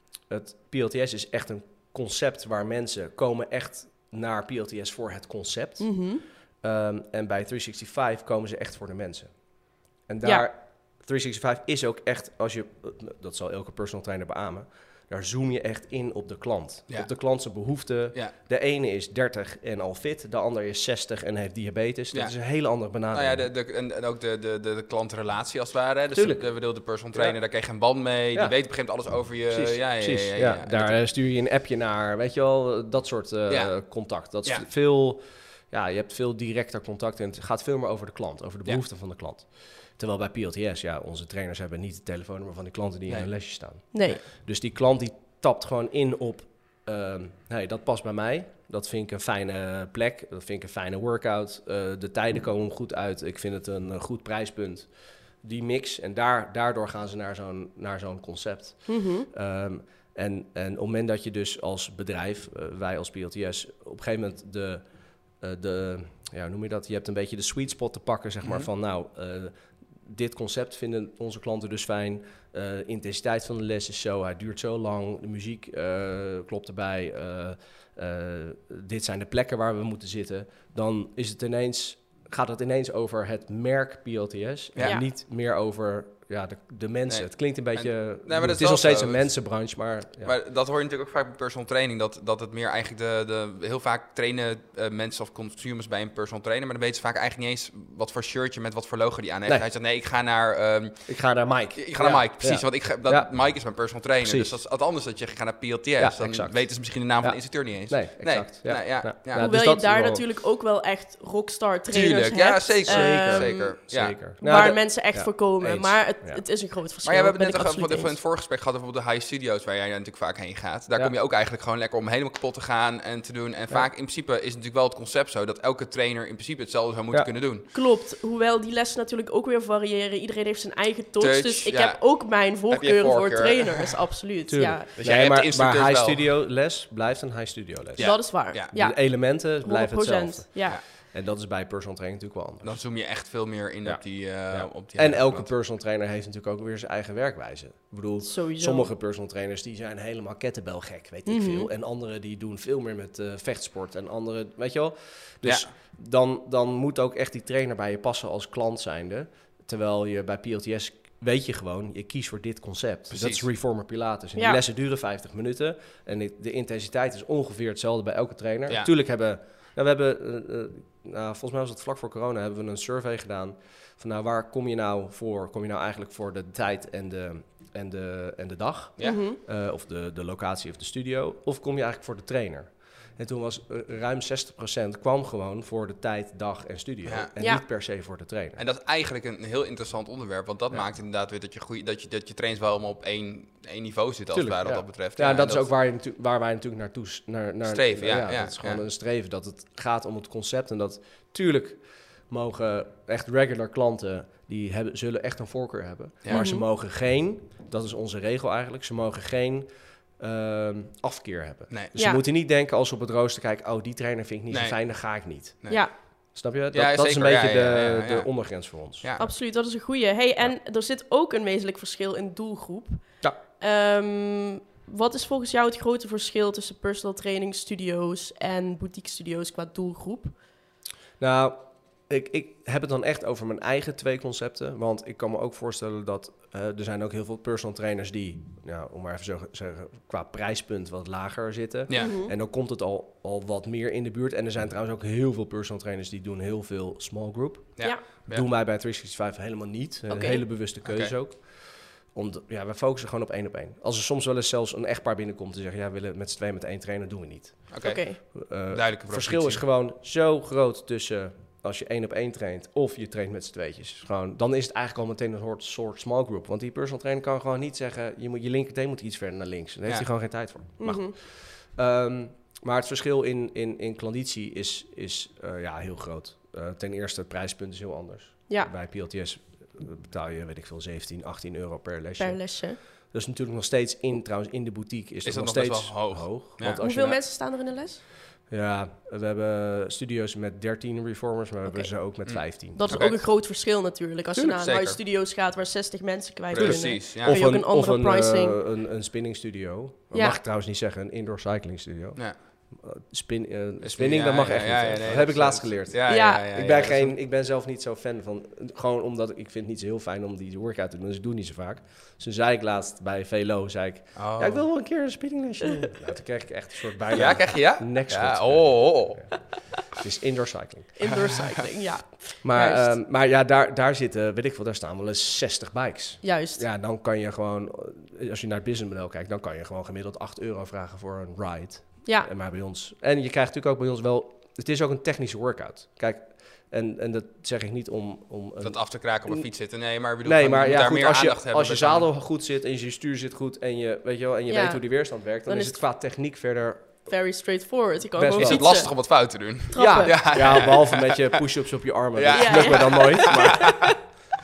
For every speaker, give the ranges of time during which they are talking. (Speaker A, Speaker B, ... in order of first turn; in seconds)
Speaker A: 0.2-23.5, 26.1-27.4, 28.3-28.7, 29.5-90.3, 101.1-104.5, 106.0-110.2, 112.8-116.4, 134.5-143.1, 143.8-188.6, 194.3-219.1, 231.2-287.2, 288.5-293.2, 294.3-294.6, 296.5-321.1, 322.4-347.1, 348.1-349.0, 349.7-354.3
Speaker B: 5.8-6.2, 43.9-44.2, 58.9-59.3, 84.8-85.1, 109.3-118.2, 127.7-134.9, 138.0-140.8, 148.2-148.9, 151.2-151.7, 179.0-179.4, 206.3-206.7, 211.9-212.2, 215.7-215.9, 219.2-230.4, 241.9-242.3, 250.1-250.4, 257.8-258.2, 270.8-271.1, 282.2-282.8, 286.8-288.0, 291.6-291.9, 292.6-298.6, 300.1-300.4, 306.1-306.4, 321.0-323.0, 326.2-326.6, 344.5-345.8, 347.0-350.7, 352.3-353.9
Speaker C: 16.9-17.6, 22.1-31.0, 33.5-34.6, 43.1-44.2, 84.7-85.0, 87.1-109.5, 111.9-114.8, 117.0-127.6, 131.2-134.1, 135.0-136.3, 137.9-138.7, 142.6-145.6, 155.4-155.7, 163.1-163.4, 187.1-187.3, 188.6-195.7, 197.6-198.8, 206.2-206.5, 214.5-219.3, 241.9-242.2, 247.8-248.4, 250.8-251.1, 257.7-259.6, 285.2-286.8, 292.2-293.2, 294.6-295.0, 296.5-297.4, 303.8-307.1, 314.1-314.8, 317.1-319.5, 338.6-342.1, 348.4-351.4, 352.1-353.6